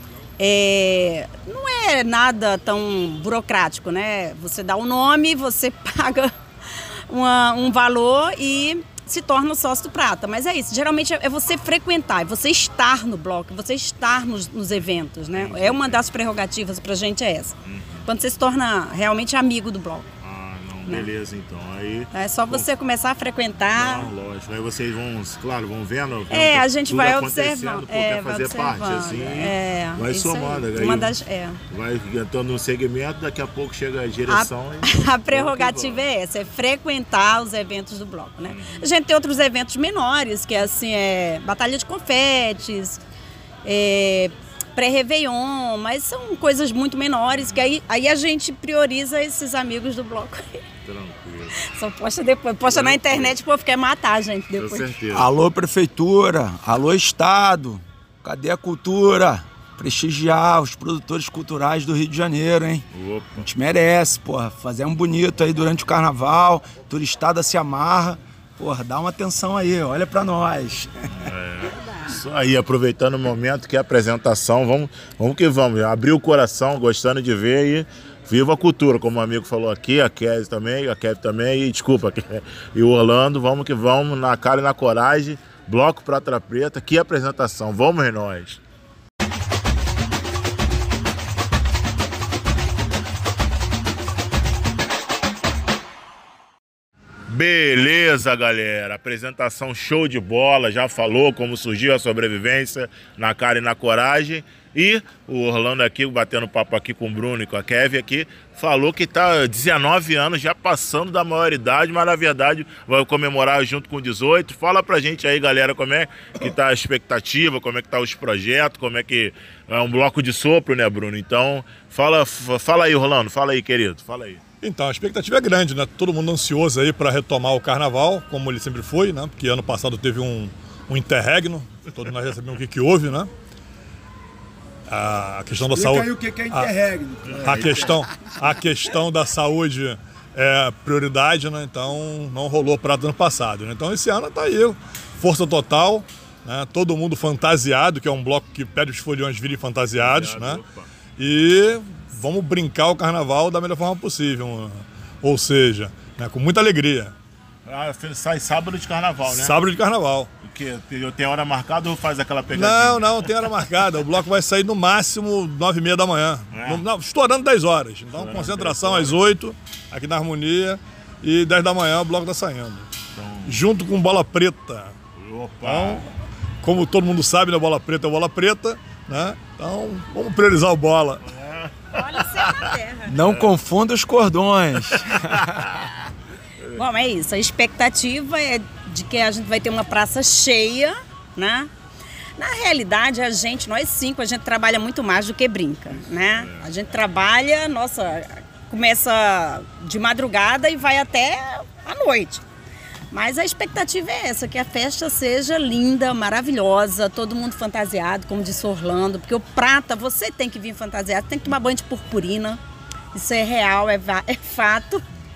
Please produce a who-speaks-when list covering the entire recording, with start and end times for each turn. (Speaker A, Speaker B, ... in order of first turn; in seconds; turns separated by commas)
Speaker A: 0.4-20.1, Speaker B: 15.3-16.0, Speaker B: 17.6-18.0, Speaker B: 20.2-22.7, Speaker A: 22.1-24.1, Speaker B: 23.7-31.2, Speaker A: 26.3-31.6, Speaker B: 31.7-36.0, Speaker A: 34.3-43.0, Speaker B: 38.5-38.8, Speaker A: 43.6-50.6, Speaker B: 50.8-51.6, Speaker A: 51.6-55.0, Speaker B: 52.7-53.4, Speaker B: 54.5-55.3, Speaker C: 55.1-62.9, Speaker B: 62.9-63.5, Speaker C: 63.4-71.2, Speaker B: 71.1-88.6, Speaker B: 97.3-124.4, Speaker D: 124.6-133.3, Speaker D: 134.9-136.7, Speaker C: 135.6-138.0, Speaker B: 137.3-138.0, Speaker D: 137.4-150.6, Speaker B: 150.0-150.9, Speaker D: 151.2-157.1, Speaker B: 157.7-159.6, Speaker D: 159.3-160.3, Speaker B: 160.4-163.4, Speaker D: 162.5-172.9, Speaker B: 166.5-166.8, Speaker B: 168.1-169.2, Speaker B: 173.1-173.6, Speaker D: 173.4-174.9, Speaker B: 175.2-176.0, Speaker D: 175.6-176.1, Speaker D: 176.6-181.2, Speaker B: 181.2-183.5, Speaker A: 181.9-183.1, Speaker C: 183.0-185.7, Speaker B: 184.9-185.9, Speaker A: 186.7-191.7, Speaker A: 192.4-202.4, Speaker B: 196.4-196.7, Speaker A: 203.1-212.6, Speaker A: 213.1-215.0